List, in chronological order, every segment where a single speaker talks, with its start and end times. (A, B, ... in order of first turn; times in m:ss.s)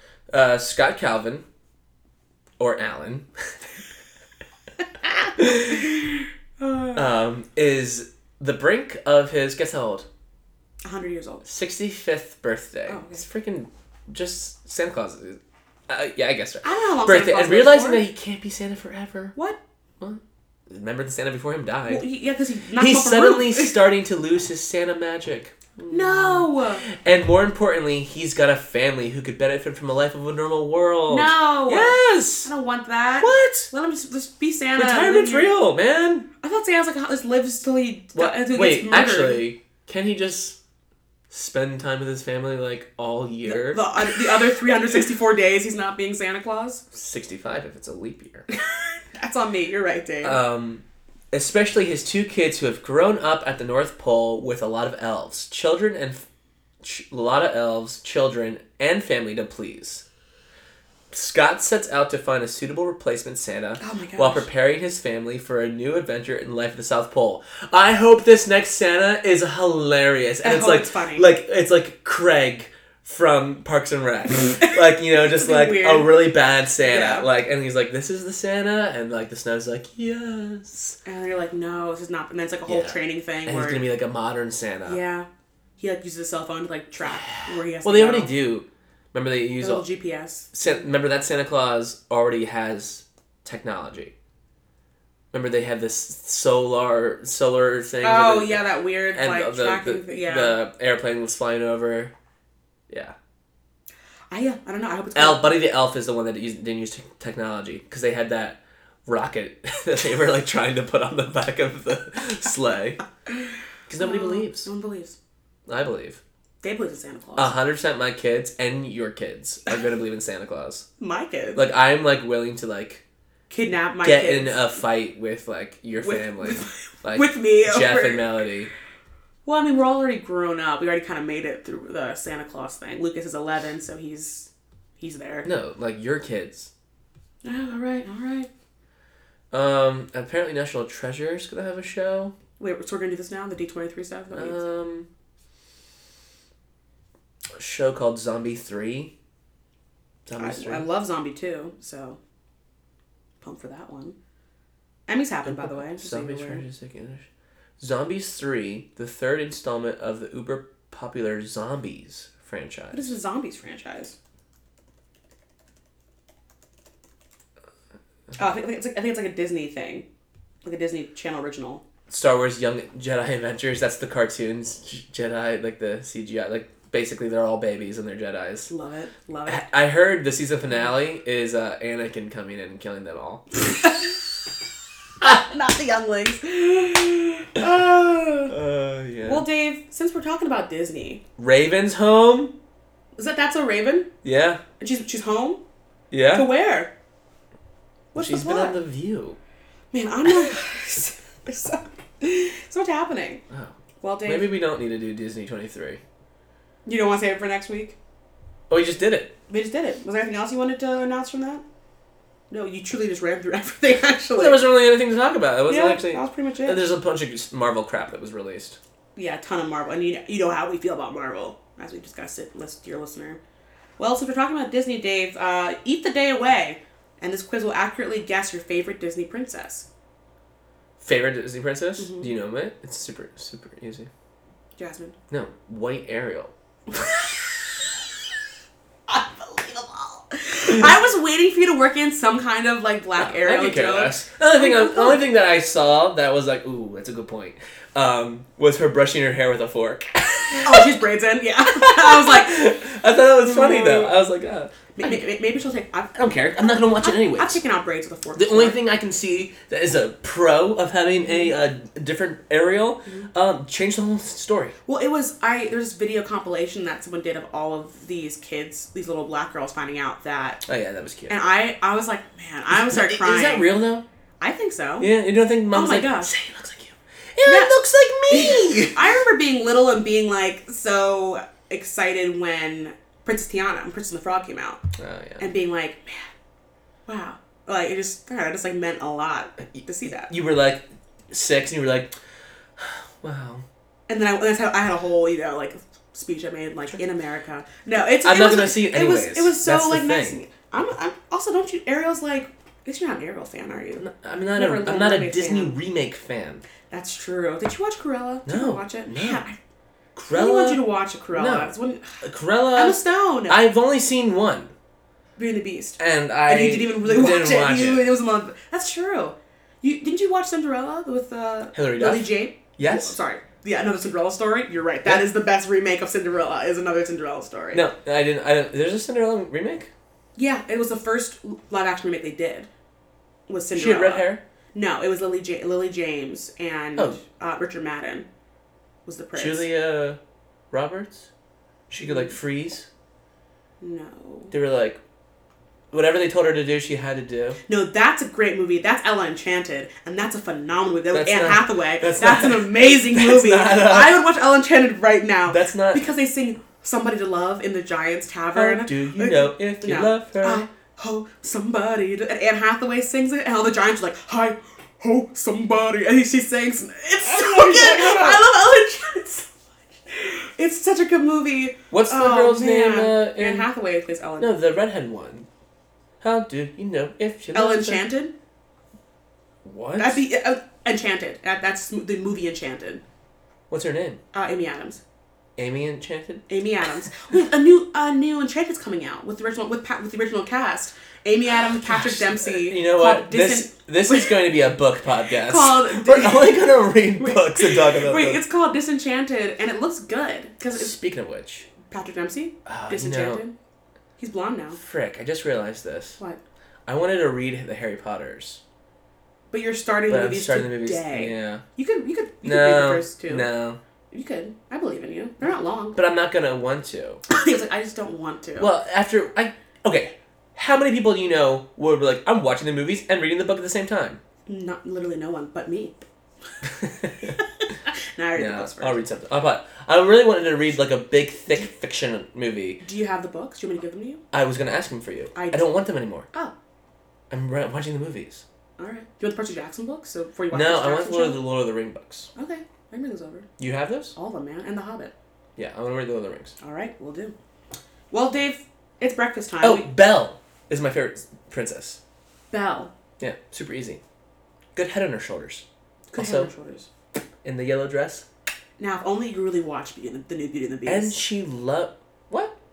0:00.3-0:01.4 A
0:02.6-0:03.3 A
0:05.4-0:05.8 A
0:05.5-0:06.0 B
0:06.6-0:07.0 B
0:07.0-0:10.1 A
0:10.8-0:11.4 B
0:11.4-0:19.4 A
0:12.9-0:13.2 B
0:16.6-0:18.0 B
0:20.0-0:22.0 A
0:21.9-0:23.8 B
0:22.8-0:32.5 A
0:25.9-0:26.8 B
0:31.1-0:35.5 B
0:33.2-0:33.7 A
0:34.8-0:36.3 A
0:36.4-0:39.4 B
0:38.2-0:40.6 A
0:41.3-0:44.4 A
0:43.5-0:46.8 B
0:46.9-0:48.5 A
0:48.5-0:50.4 B
0:50.2-0:56.2 A
0:56.8-1:00.0 A
1:01.1-1:21.0 A
1:03.8-1:04.5 B
1:10.4-1:11.3 B
1:14.6-1:16.3 B
1:16.8-1:17.3 B
1:21.0-1:23.9 B
1:22.7-1:25.0 A
1:24.9-1:25.3 B
1:25.8-1:28.3 B
1:27.2-1:29.8 A
1:29.6-1:30.5 B
1:30.5-1:34.1 A
1:35.3-1:42.1 A
1:38.0-1:40.6 B
1:42.9-1:43.2 A
1:44.3-1:45.6 B
1:45.2-1:53.0 A
1:53.9-1:54.7 A
1:54.0-1:55.2 B
1:55.7-1:56.2 A
1:56.6-1:57.5 B
1:57.4-2:00.9 A
2:01.0-2:01.6 B
2:01.6-2:03.0 A
2:03.5-2:04.7 B
2:04.0-2:08.7 A
2:06.0-2:08.4 B
2:09.5-2:15.5 B
2:15.4-2:16.7 A
2:17.4-2:18.5 B
2:19.5-2:22.3 A
2:22.6-2:24.6 B
2:24.3-2:25.1 A
2:27.6-2:29.1 A
2:30.3-2:30.8 A
2:30.4-2:32.2 B
2:33.4-2:34.2 B
2:35.1-2:36.6 B
2:35.4-2:37.3 A
2:37.8-2:43.1 A
2:42.9-2:44.2 B
2:48.4-2:50.0 B
2:50.6-2:51.8 B
2:52.1-2:58.7 A
2:58.7-2:59.6 B
2:59.5-3:03.5 A
3:03.8-3:04.2 B
3:05.2-3:08.5 B
3:08.5-3:09.4 A
3:09.2-3:11.2 B
3:11.4-3:12.5 A
3:13.2-3:14.1 B
3:14.2-3:14.6 A
3:14.8-3:15.6 B
3:16.1-3:16.5 A
3:16.3-3:16.9 B
3:18.1-3:18.8 B
3:18.2-3:19.4 A
3:19.9-3:23.4 B
3:24.0-3:24.5 B
3:24.2-3:26.0 A
3:26.8-3:28.0 B
3:28.7-3:29.3 A
3:29.5-3:31.6 B
3:32.5-3:34.7 B
3:34.4-3:38.8 A
3:35.7-3:36.8 B
3:39.2-3:43.4 B
3:44.0-3:49.9 B
3:51.0-3:54.1 A
3:52.0-3:52.3 B
3:54.8-3:55.2 B
3:55.3-3:56.5 A
3:56.9-3:57.9 B
3:59.1-4:05.2 B
4:03.2-4:11.0 A
4:10.6-4:12.7 B
4:11.7-4:15.2 A
4:13.4-4:14.2 B
4:15.0-4:18.8 B
4:16.1-4:17.6 A
4:18.4-4:24.7 A
4:24.9-4:30.6 B
4:30.6-4:31.4 A
4:31.3-4:33.8 B
4:32.7-4:34.0 A
4:34.4-4:35.1 B
4:35.0-4:39.0 A
4:35.7-4:36.3 B
4:37.5-4:37.7 B
4:38.3-4:44.8 B
4:45.0-4:45.5 A
4:45.4-4:46.3 B
4:47.1-4:50.3 B
4:49.6-4:52.1 A
4:52.8-4:53.6 A
4:54.1-5:04.0 B
4:58.2-5:00.4 A
5:04.0-5:06.6 A
5:04.6-5:05.8 B
5:06.9-5:09.6 B
5:08.5-5:09.4 A
5:10.2-5:10.8 A
5:10.3-5:12.2 B
5:11.3-5:11.7 A
5:12.2-5:14.7 A
5:12.8-5:13.6 B
5:15.4-5:27.8 B
5:16.0-5:18.0 A
5:21.7-5:23.2 A
5:27.7-5:29.9 A
5:30.4-5:32.7 B
5:33.5-5:38.3 B
5:33.7-5:34.4 A
5:39.1-5:39.7 B
5:39.4-5:40.2 A
5:40.7-5:41.3 A
5:41.9-5:42.9 A
5:42.0-5:42.3 B
5:43.8-5:44.5 B
5:44.5-5:45.0 A
5:45.9-5:47.6 A
5:47.7-6:09.5 B
5:51.1-5:54.2 A
5:55.5-5:56.0 A
5:58.5-6:00.7 A
6:07.4-6:08.4 A
6:10.1-6:14.6 B
6:11.9-6:13.7 A
6:14.4-6:15.5 A
6:16.2-6:18.0 A
6:17.5-6:18.3 B
6:19.6-6:20.2 A
6:20.0-6:23.0 B
6:23.7-6:24.2 A
6:24.3-6:25.0 B
6:25.6-6:26.4 A
6:26.5-6:34.4 B
6:31.9-6:38.4 A
6:35.3-6:41.0 B
6:40.7-6:41.7 A
6:41.8-6:43.5 B
6:42.7-6:43.4 A
6:44.2-6:44.8 B
6:44.8-6:46.2 A
6:46.9-6:48.6 A
6:49.5-6:53.5 B
6:50.1-6:51.6 A
6:52.4-6:53.8 A
6:54.1-6:56.0 B
6:56.0-6:57.2 A
6:57.3-6:58.7 B
6:58.6-7:04.2 A
7:04.5-7:06.0 B
7:06.8-7:07.4 A
7:08.1-7:09.0 B
7:08.3-7:12.8 A
7:12.8-7:14.2 B
7:14.3-7:16.3 A
7:15.4-7:15.7 B
7:17.3-7:18.4 A
7:18.8-7:21.4 B
7:20.5-7:22.3 A
7:22.4-7:23.5 B
7:23.6-7:24.2 A
7:24.2-7:25.1 B
7:25.6-7:26.6 A
7:26.6-7:27.4 B
7:28.1-7:29.9 B
7:29.6-7:32.0 A
7:32.5-7:32.9 B
7:33.2-7:34.0 A
7:34.8-7:35.6 A
7:36.1-7:36.9 B
7:36.2-7:36.5 A
7:37.4-7:38.2 A
7:38.8-7:41.2 B
7:40.9-7:42.5 A